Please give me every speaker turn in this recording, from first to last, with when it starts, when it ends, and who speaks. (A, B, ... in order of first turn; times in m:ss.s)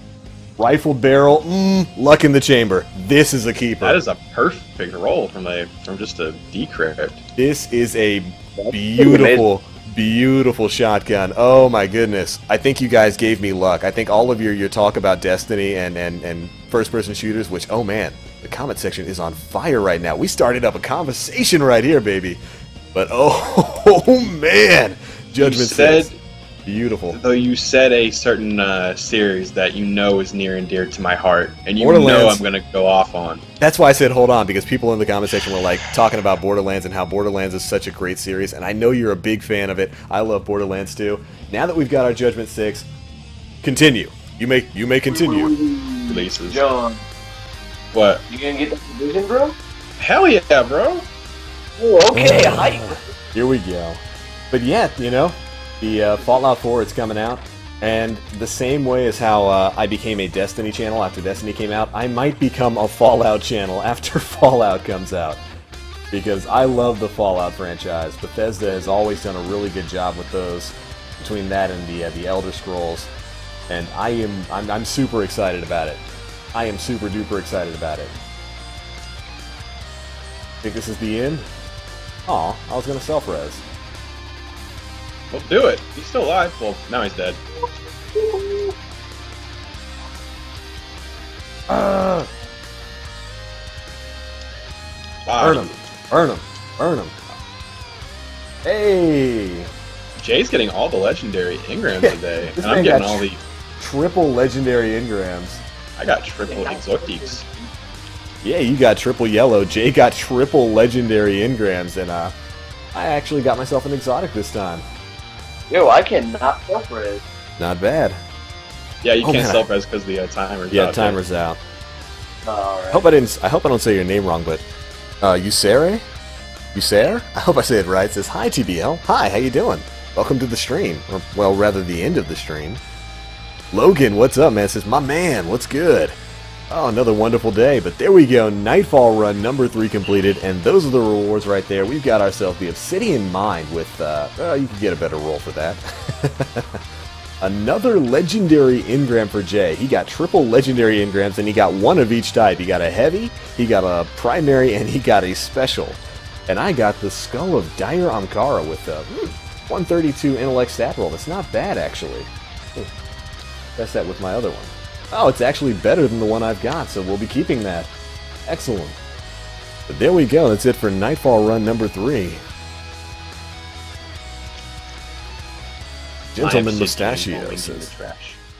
0:00.6-0:04.0 A
0:03.8-0:07.2 B
0:07.4-0:22.4 A
0:08.6-0:09.5 C
0:22.9-0:26.1 A
0:25.4-0:26.2 B
0:26.7-0:27.2 A
0:27.1-0:33.4 B
0:31.8-0:32.4 A
0:33.6-0:42.9 A
0:43.6-0:45.6 A
0:45.1-0:47.0 C
0:46.1-0:46.6 B
0:47.9-0:48.2 B
0:48.3-0:49.6 C
0:50.0-0:51.1 B
0:51.8-0:53.0 C
0:52.1-1:05.4 A
1:06.1-1:13.1 A
1:13.7-1:16.0 A
1:16.5-1:18.1 A
1:20.6-1:21.5 A
1:22.3-1:23.6 A
1:25.3-1:27.4 B
1:28.2-1:28.7 C
1:31.7-1:32.3 A
1:35.3-1:35.8 B
1:35.4-1:37.4 A
1:38.6-1:39.7 A
1:40.2-1:43.4 B
1:42.0-1:43.2 A
1:43.8-1:45.6 A
1:46.0-1:47.4 B
1:46.4-1:47.5 C
1:48.4-1:52.4 A
1:52.9-1:54.8 A
1:55.7-1:57.2 C
1:57.6-1:58.2 A
1:59.0-2:01.2 B
1:59.2-1:59.7 A
2:00.7-2:01.6 A
2:02.4-2:03.2 C
2:02.9-2:04.6 A
2:05.2-2:06.0 A
2:06.7-2:12.8 A
2:13.7-2:16.2 A
2:16.7-2:26.8 A
2:27.4-2:42.9 A
2:43.8-2:47.9 A
2:48.5-2:49.0 A
2:49.9-2:52.4 A
2:56.3-2:57.9 A
2:56.4-2:58.4 B